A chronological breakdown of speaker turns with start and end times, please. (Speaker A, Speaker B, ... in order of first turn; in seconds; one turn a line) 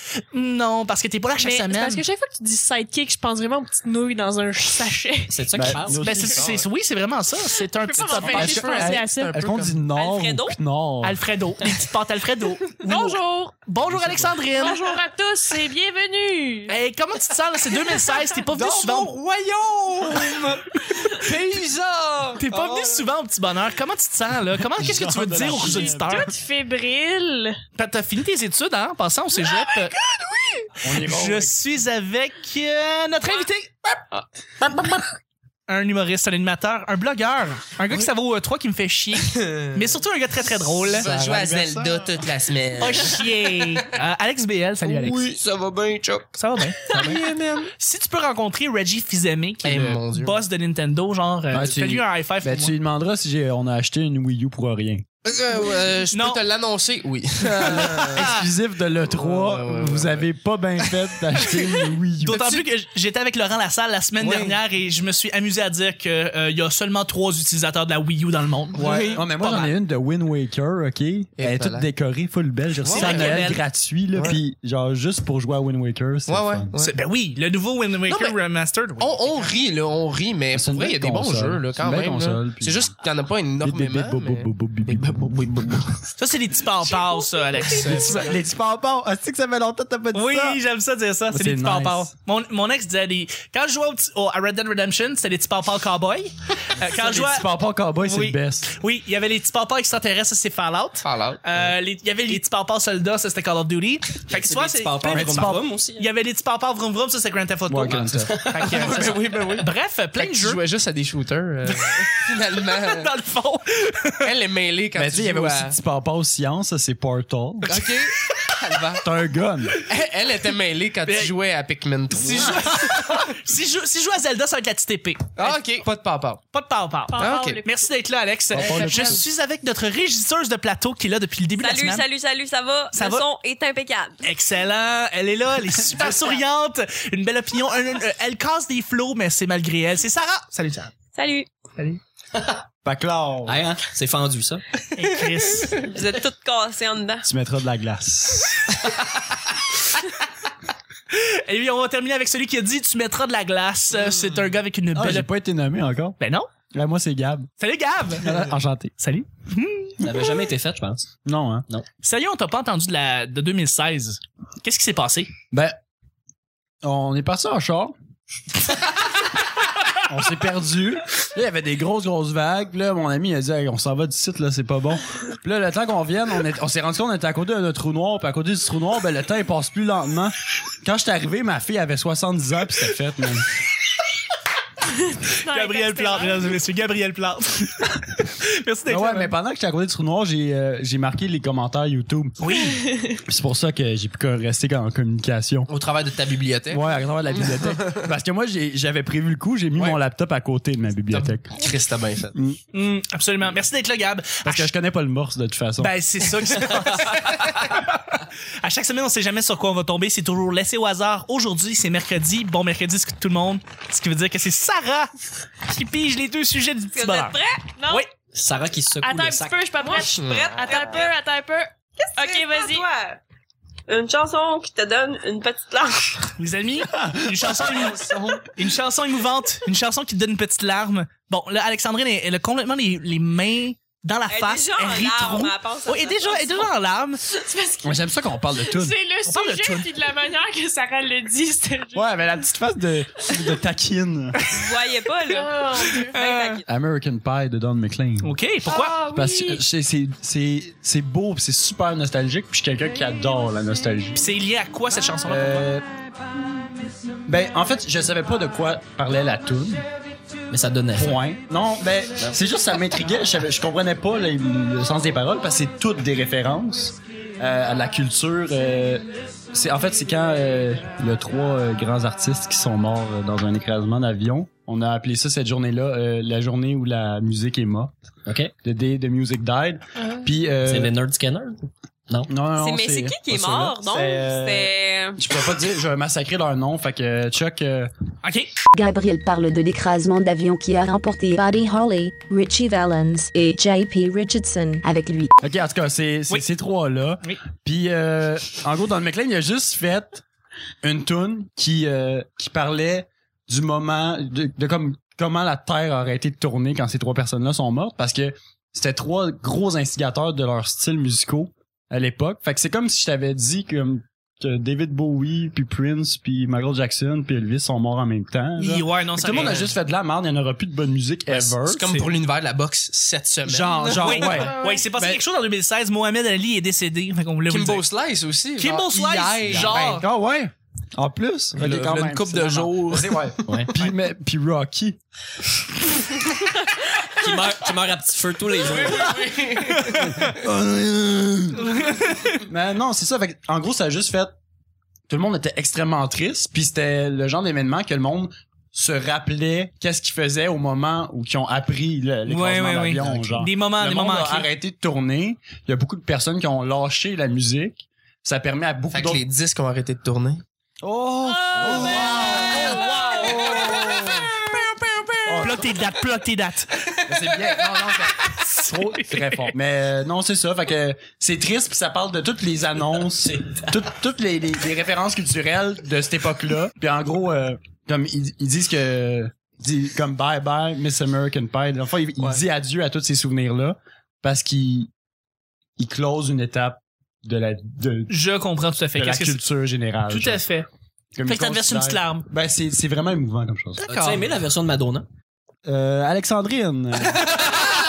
Speaker A: 0.2-2.0
Speaker B: 1.4-5.3
Speaker C: 5.3-6.1
Speaker D: 5.5-6.5
Speaker A: 6.0-8.8
Speaker E: 6.1-6.7
Speaker B: 7.8-9.4
Speaker E: 8.0-9.9
Speaker D: 8.3-11.2
Speaker A: 10.2-14.9
Speaker B: 12.7-13.5
Speaker B: 14.5-16.7
Speaker A: 16.7-19.2
Speaker E: 18.5-23.1
Speaker A: 22.4-26.3
Speaker D: 24.6-26.3
Speaker B: 25.6-27.6
Speaker A: 27.8-30.0
Speaker E: 29.4-30.7
Speaker D: 30.8-31.6
Speaker A: 30.9-33.9
Speaker E: 34.1-35.0
Speaker A: 35.7-41.1
Speaker E: 39.3-40.0
Speaker E: 40.8-43.9
Speaker D: 40.9-42.2
Speaker A: 42.8-45.3
Speaker E: 44.8-47.7
Speaker A: 46.4-47.2
Speaker A: 47.8-52.8
Speaker E: 49.6-50.4
Speaker D: 51.5-55.0
Speaker E: 55.2-58.3
Speaker A: 56.1-56.4
Speaker D: 57.6-62.5
Speaker A: 57.6-58.4
Speaker E: 59.1-60.3
Speaker A: 62.2-69.8
Speaker E: 62.3-62.6
Speaker E: 64.2-64.5
Speaker E: 68.8-69.3
Speaker D: 68.8-76.7
Speaker E: 71.4-71.9
Speaker E: 72.8-73.5
Speaker A: 72.9-73.6
Speaker E: 76.3-76.9
Speaker A: 76.8-79.6
Speaker E: 78.1-78.4
Speaker E: 79.0-86.1
Speaker D: 80.5-82.9
Speaker D: 83.6-85.4
Speaker A: 86.2-88.4
Speaker E: 86.9-88.4
Speaker D: 88.0-90.6
Speaker A: 90.1-97.5
Speaker D: 91.3-92.1
Speaker D: 96.8-98.7
Speaker A: 98.0-110.6
Speaker E: 101.0-101.4
Speaker C: 104.3-106.1
Speaker D: 105.1-105.7
Speaker D: 107.7-108.5
Speaker C: 108.3-108.6
Speaker E: 108.6-113.1
Speaker A: 111.7-114.3
Speaker E: 114.2-115.8
Speaker D: 115.0-117.8
Speaker A: 117.7-118.5
Speaker E: 117.7-119.0
Speaker D: 119.0-119.8
Speaker E: 119.9-123.4
Speaker A: 121.0-121.3
Speaker A: 122.2-125.8
Speaker E: 125.3-126.4
Speaker A: 126.5-132.0
Speaker B: 127.1-127.8
Speaker E: 127.2-127.6
Speaker D: 128.5-129.2
Speaker E: 128.6-129.2
Speaker F: 131.6-134.3
Speaker A: 132.9-133.2
Speaker A: 134.2-140.9
Speaker F: 141.1-141.5
Speaker D: 142.8-143.6
Speaker C: 143.5-144.7
Speaker A: 145.0-145.9
Speaker F: 145.7-147.3
Speaker D: 147.2-148.6
Speaker A: 151.1-155.3
Speaker E: 154.0-154.4
Speaker D: 154.9-156.2
Speaker A: 156.2-156.5
Speaker D: 156.7-157.5
Speaker A: 157.6-160.0
Speaker D: 158.2-159.0
Speaker C: 160.0-161.1
Speaker D: 161.2-161.7
Speaker A: 162.0-165.3
Speaker D: 165.5-165.8
Speaker D: 166.8-167.9
Speaker D: 170.0-183.5
Speaker B: 185.4-186.6
Speaker A: 185.4-189.3
Speaker D: 188.9-192.4
Speaker A: 192.4-192.8
Speaker B: 192.8-193.1
Speaker D: 193.3-195.7
Speaker E: 195.7-196.9
Speaker D: 196.7-201.5
Speaker E: 197.4-198.0
Speaker E: 201.1-202.3
Speaker A: 202.7-204.7
Speaker D: 204.4-205.9
Speaker A: 205.8-215.1
Speaker A: 215.7-218.1
Speaker F: 216.9-217.7
Speaker B: 217.8-218.1
Speaker C: 218.3-219.6
Speaker B: 219.0-222.9
Speaker F: 219.8-221.1
Speaker E: 220.1-220.6
Speaker F: 222.0-223.2
Speaker F: 223.9-226.3
Speaker A: 226.4-237.2
Speaker D: 227.0-228.5
Speaker F: 234.3-236.7
Speaker B: 237.4-237.9
Speaker D: 237.8-239.0
Speaker B: 238.6-242.1
Speaker A: 239.2-239.9
Speaker D: 241.9-244.4
Speaker F: 244.5-246.7
Speaker B: 245.3-246.2
Speaker A: 246.1-246.6
Speaker D: 246.7-248.3
Speaker A: 248.2-249.0
Speaker B: 248.7-249.6
Speaker D: 249.1-254.3
Speaker A: 254.2-255.7
Speaker D: 255.3-255.8
Speaker D: 257.3-259.9
Speaker C: 260.5-261.2
Speaker D: 260.9-277.9
Speaker C: 278.3-278.5
Speaker D: 278.6-280.9
Speaker C: 280.7-282.3
Speaker D: 282.3-287.9
Speaker F: 282.6-285.2
Speaker A: 288.2-288.5
Speaker G: 288.7-295.3
Speaker D: 295.4-300.2
Speaker D: 300.8-321.9
Speaker A: 318.6-319.7
Speaker E: 319.3-319.7
Speaker E: 321.3-324.4
Speaker D: 323.4-325.2
Speaker A: 324.0-327.9
Speaker B: 324.3-324.9
Speaker E: 327.5-330.0
Speaker A: 328.6-330.0
Speaker D: 329.5-335.0
Speaker E: 331.6-333.7
Speaker C: 337.1-339.3
Speaker E: 338.6-340.3
Speaker D: 339.9-341.7
Speaker A: 341.7-342.4
Speaker D: 342.4-344.3
Speaker D: 345.1-359.2
Speaker A: 352.3-354.5
Speaker E: 358.9-360.4
Speaker D: 360.8-364.4
Speaker B: 361.4-363.0
Speaker A: 362.7-363.3
Speaker D: 365.2-365.7
Speaker A: 365.4-366.7
Speaker D: 367.1-384.9
Speaker E: 367.3-367.9
Speaker A: 368.7-369.5
Speaker C: 373.4-373.6
Speaker D: 385.8-388.1
Speaker A: 388.1-389.4
Speaker D: 388.9-390.4
Speaker A: 390.1-390.7
Speaker D: 391.1-393.8
Speaker A: 391.3-392.3
Speaker A: 393.8-394.3
Speaker C: 393.9-395.1
Speaker D: 395.7-397.6